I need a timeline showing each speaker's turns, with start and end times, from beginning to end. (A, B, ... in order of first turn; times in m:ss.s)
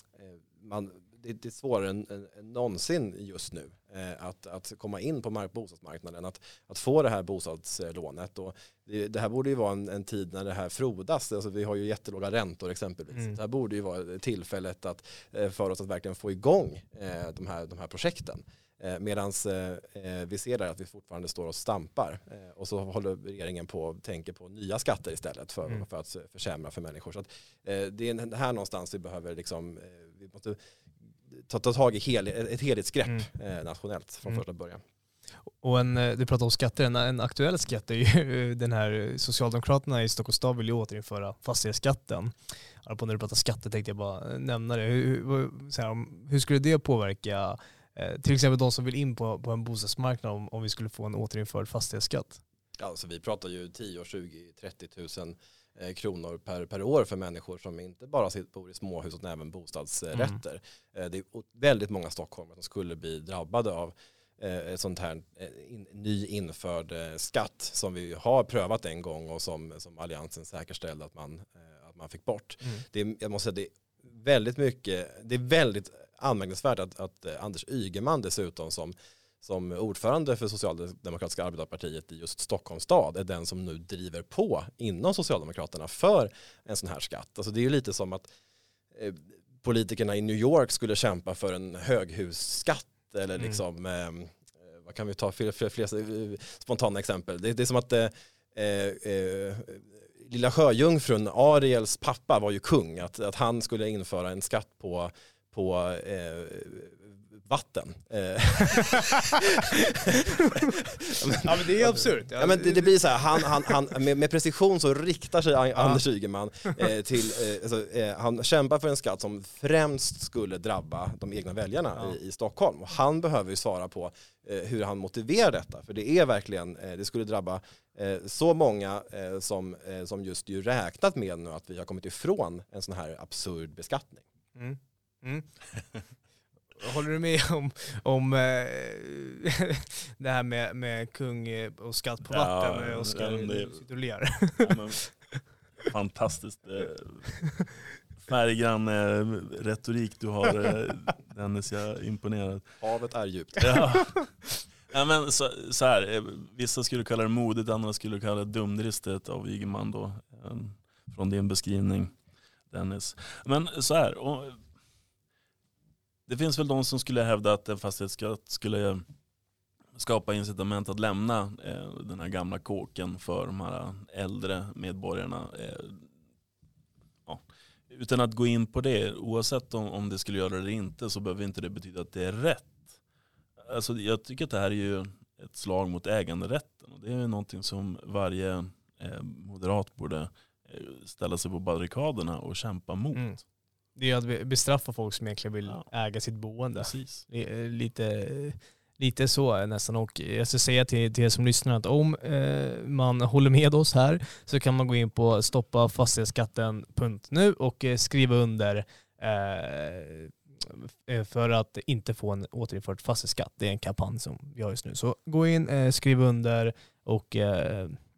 0:00.2-0:30.6 A
0:31.3-0:34.8 A
0:35.6-0:42.3 B
0:42.8-0:52.4 B
0:52.8-1:28.3 A
1:28.9-2:14.2 A
1:51.3-1:53.7 B
2:14.6-2:15.5 B
2:16.8-2:25.1 B
2:22.3-2:23.8 C
2:24.6-2:25.0 C
2:25.8-2:27.4 C
2:28.2-2:32.8 C
2:32.8-2:33.8 A
2:33.6-2:42.1 C
2:42.7-2:44.6 C
2:46.3-2:49.0 C
2:50.0-2:56.1 C
2:57.3-3:03.0 C
3:03.6-3:13.3 C
3:14.0-3:38.0 B
3:16.8-3:17.2 C